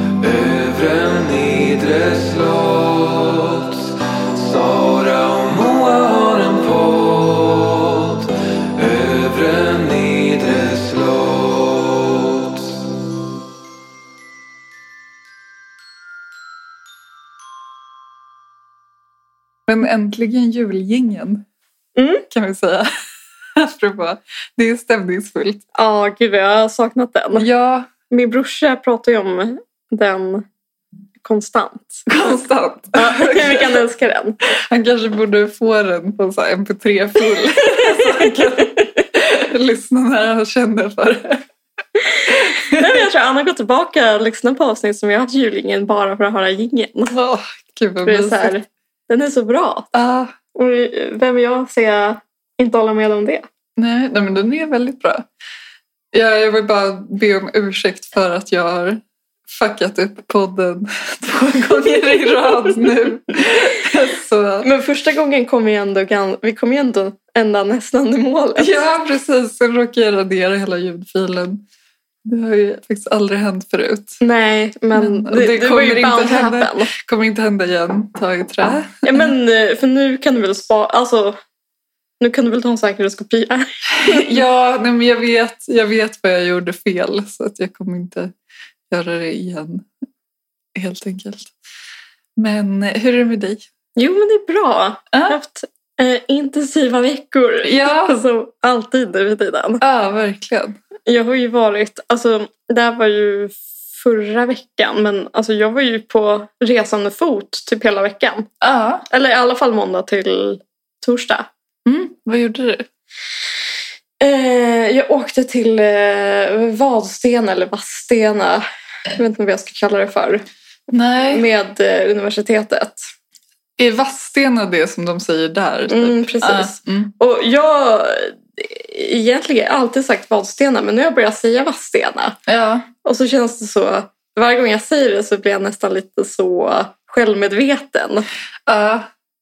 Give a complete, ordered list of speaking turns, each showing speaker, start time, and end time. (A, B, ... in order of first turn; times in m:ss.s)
0:00.2-0:12.8 A
0:19.7-0:21.4 B
0:22.0-0:22.2 C
0:22.3-0:22.9 B
0:23.6-0:25.6 B
0:25.7-0:27.5 C
0:27.4-0:27.9 B
0:28.1-0:30.4 C
0:31.2-0:32.3 C
0:32.1-0:33.8 B
0:32.9-0:34.4 C
0:34.7-0:41.4 B
0:37.6-0:38.8 C
0:42.3-0:43.0 B
0:42.7-0:47.2 C
0:47.1-0:48.5 B
0:48.0-0:49.9 C
0:49.9-0:50.3 B
0:50.5-0:53.5 C
0:53.8-0:55.3 B
0:56.1-1:04.7 B
1:04.6-1:08.8 C
1:08.6-1:11.6 B
1:12.2-1:14.2 B
1:14.2-1:16.9 C
1:14.9-1:19.3 B
1:19.0-1:21.4 C
1:22.2-1:24.3 C
1:24.0-1:28.3 B
1:28.9-1:29.9 B
1:30.7-1:31.5 B
1:32.4-1:33.6 B
1:34.0-1:39.8 C
1:35.1-1:35.4 B
1:37.6-1:38.2 B
1:39.8-1:40.8 B
1:41.0-1:48.5 C
1:48.6-1:49.0 B
1:49.1-1:51.5 C
1:51.8-1:52.8 B
1:54.2-2:00.4 C
2:00.9-2:01.4 B
2:01.3-2:03.0 C
2:03.8-2:07.1 B
2:05.9-2:12.4 C
2:12.5-2:12.9 B
2:13.0-2:18.3 C
2:18.7-2:19.1 B